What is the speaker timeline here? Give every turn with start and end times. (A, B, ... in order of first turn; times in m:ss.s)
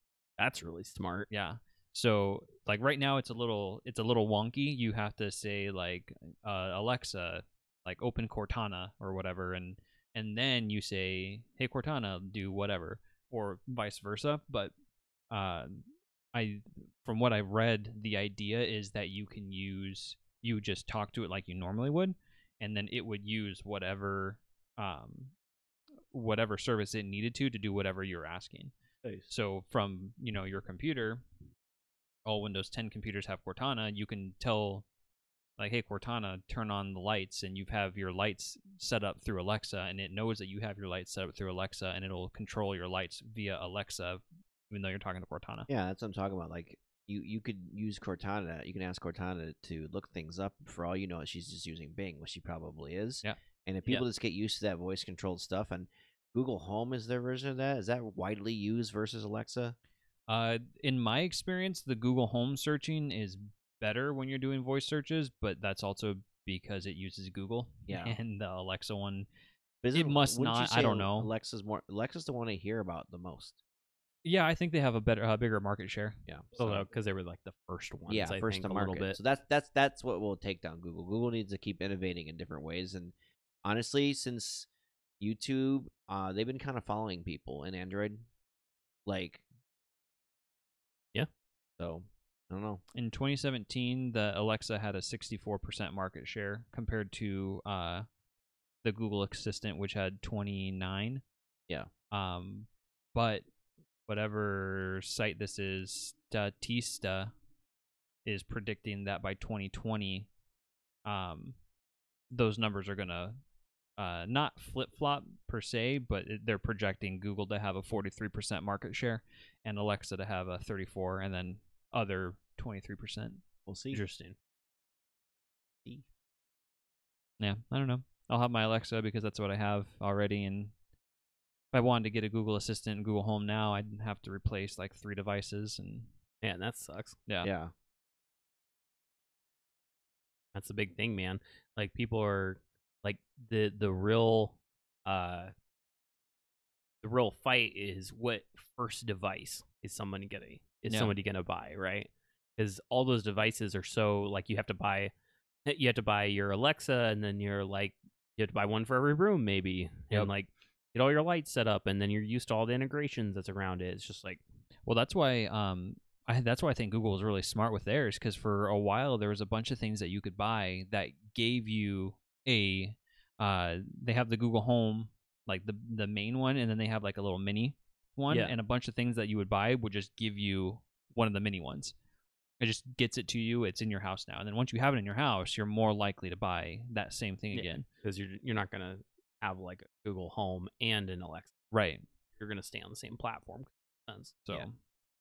0:00.4-0:01.3 A
0:01.3-0:14.7 B
0:15.3-0:15.8 B
0:16.3-0:25.3 B
0:26.1-0:28.7 B
0:29.3-0:31.2 B
0:32.3-0:34.8 B
0:35.6-0:45.7 B
0:45.7-0:59.8 C
0:53.2-0:54.1 B
1:00.3-1:09.3 B
1:07.9-1:08.2 C
1:09.8-1:13.6 C
1:09.9-1:11.3 B
1:14.2-1:16.2 B
1:16.3-1:16.9 C
1:16.6-1:19.2 A
1:18.1-1:24.7 C
1:25.2-1:28.2 C
1:29.1-1:29.4 C
1:31.8-1:32.8 C
1:33.0-1:38.1 B
1:38.8-1:41.2 B
1:42.1-1:43.4 B
1:44.1-1:47.3 B
1:48.3-1:50.3 B
1:51.1-1:51.6 B
1:52.3-1:53.4 B
1:54.0-2:03.4 B
2:03.7-2:04.0 C
2:03.9-2:04.4 A
2:07.4-2:10.7 B
2:11.7-2:16.1 B
2:16.4-2:17.2 A
2:17.4-2:17.7 C
2:20.5-2:25.5 A
2:27.0-2:35.1 A
2:30.9-2:31.1 B
2:35.7-2:44.4 A
2:44.9-3:01.9 B
3:02.6-3:07.8 B
3:07.5-3:11.5 A
3:11.7-3:12.0 B
3:12.4-3:14.4 A
3:14.5-3:14.8 B